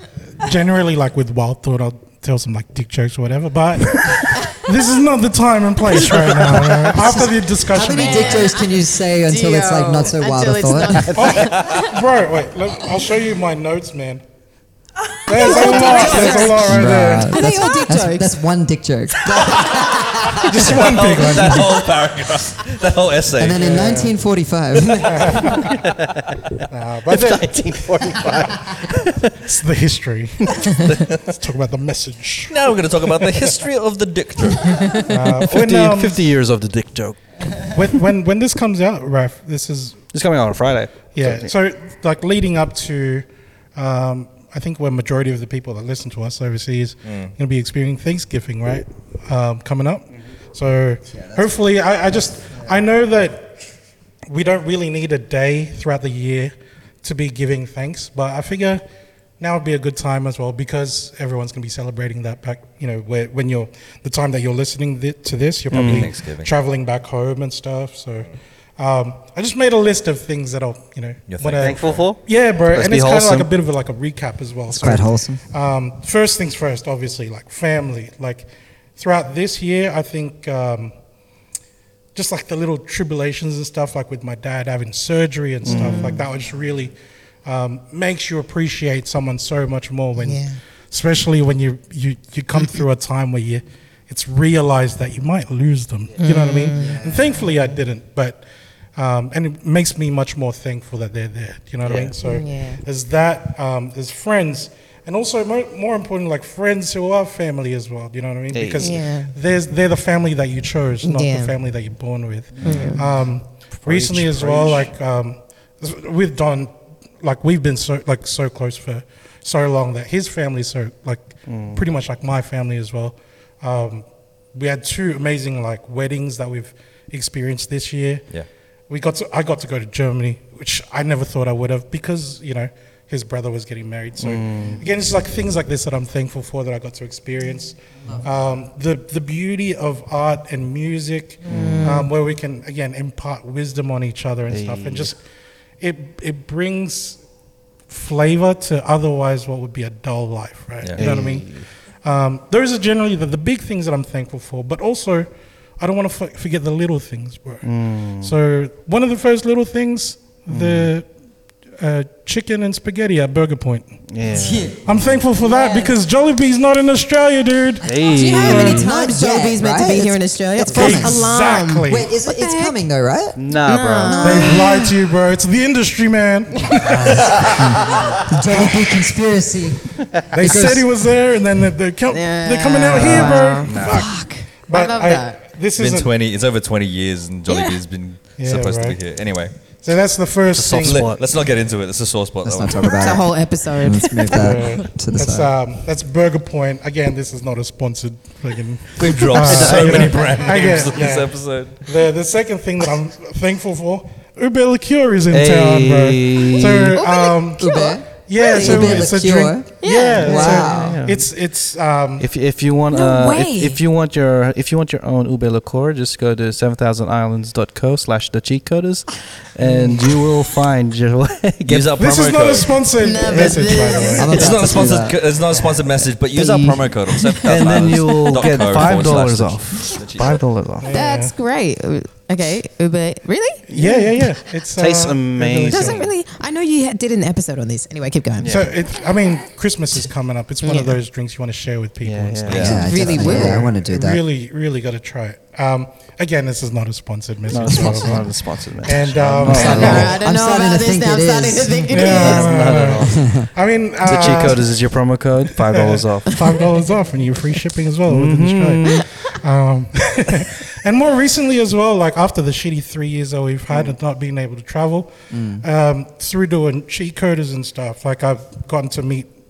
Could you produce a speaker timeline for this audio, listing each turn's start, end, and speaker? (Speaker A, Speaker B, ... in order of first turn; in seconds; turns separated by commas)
Speaker A: 0.4-8.5, Speaker B: 6.9-11.2, Speaker C: 7.9-11.9, Speaker A: 11.2-14.2, Speaker D: 11.5-11.8, Speaker A: 15.3-17.5, Speaker C: 15.3-18.4, Speaker B: 15.9-21.7, Speaker D: 19.5-23.7, Speaker A: 20.4-21.8, Speaker B: 23.4-25.5, Speaker A: 23.6-24.1, Speaker A: 25.1-25.5, Speaker E: 25.5-29.4, Speaker A: 26.7-32.6, Speaker E: 30.5-31.0, Speaker D: 32.5-35.0, Speaker C: 34.9-35.1, Speaker A: 35.1-36.2, Speaker E: 35.1-37.2, Speaker A: 37.6-40.0, Speaker E: 40.1-41.5, Speaker A: 41.1-53.6, Speaker D: 47.1-47.3, Speaker A: 54.3-58.8, Speaker A: 59.4-81.0, Speaker E: 65.7-66.1, Speaker D: 65.8-66.5, Speaker D: 71.3-72.0, Speaker E: 71.6-73.5, Speaker B: 74.7-75.4, Speaker A: 82.2-86.9, Speaker E: 85.6-86.2, Speaker C: 85.7-86.3, Speaker A: 87.5-98.4, Speaker C: 90.2-90.6, Speaker C: 96.2-97.8, Speaker B: 96.8-97.3, Speaker A: 99.0-128.2, Speaker E: 101.8-102.1, Speaker C: 102.2-102.8, Speaker E: 108.5-109.0, Speaker C: 108.8-109.3, Speaker C: 111.0-111.5, Speaker E: 112.6-113.0, Speaker C: 112.6-113.0, Speaker E: 113.7-114.9, Speaker E: 121.5-121.8, Speaker A: 128.9-145.2, Speaker E: 134.2-134.8, Speaker C: 141.4-142.1, Speaker E: 141.5-142.0, Speaker E: 144.5-145.1, Speaker A: 145.8-147.2, Speaker A: 147.9-151.5, Speaker E: 151.0-151.7, Speaker A: 152.0-157.7, Speaker E: 157.6-158.3, Speaker A: 158.2-161.1, Speaker E: 160.5-160.9, Speaker A: 161.8-164.0, Speaker E: 164.1-164.7, Speaker B: 164.3-165.0, Speaker A: 164.8-167.9, Speaker C: 165.4-166.0, Speaker E: 167.8-168.9, Speaker C: 168.0-172.7, Speaker A: 168.5-168.7, Speaker B: 168.5-171.3, Speaker A: 170.7-172.1, Speaker B: 171.9-173.4, Speaker E: 173.4-174.2, Speaker C: 173.6-174.9, Speaker B: 174.1-174.8, Speaker A: 174.2-177.9, Speaker B: 176.8-179.9, Speaker A: 178.5-178.8, Speaker E: 180.1-180.8, Speaker A: 180.3-186.1, Speaker B: 180.4-180.7, Speaker C: 182.1-185.5, Speaker E: 183.6-184.0, Speaker D: 185.8-189.6, Speaker A: 188.4-189.0, Speaker A: 189.8-191.1, Speaker E: 190.6-191.2, Speaker D: 190.7-193.1, Speaker B: 192.4-195.5, Speaker C: 192.9-194.8, Speaker A: 194.3-212.3, Speaker D: 199.0-201.8, Speaker E: 199.3-201.0, Speaker E: 205.3-206.9, Speaker C: 206.9-209.1, Speaker B: 207.6-210.9, Speaker C: 209.8-210.9, Speaker E: 210.6-211.3, Speaker E: 212.2-221.9, Speaker C: 212.9-213.8, Speaker D: 221.7-222.8, Speaker A: 222.0-224.4, Speaker C: 223.0-224.7, Speaker E: 223.3-225.0, Speaker B: 224.2-225.8, Speaker D: 224.3-230.4, Speaker C: 227.2-227.6, Speaker E: 227.4-230.9, Speaker A: 230.8-231.3, Speaker C: 230.9-233.7, Speaker E: 233.7-234.1, Speaker A: 233.7-236.1, Speaker E: 234.8-236.1, Speaker C: 235.7-238.6, Speaker E: 238.4-238.7, Speaker A: 238.4-248.3, Speaker C: 240.6-241.0, Speaker E: 242.0-242.9, Speaker D: 242.5-242.9, Speaker B: 242.5-244.2, Speaker C: 242.7-243.7, Speaker E: 247.5-250.1, Speaker B: 247.7-248.2, Speaker A: 248.8-250.1, Speaker B: 249.4-252.4, Speaker C: 249.6-252.5, Speaker A: 251.9-254.7, Speaker E: 252.1-253.3, Speaker B: 253.1-253.5, Speaker E: 254.0-256.4, Speaker A: 255.5-265.1, Speaker C: 256.4-256.8, Speaker E: 258.1-259.1, Speaker B: 265.3-265.6, Speaker A: 265.6-269.3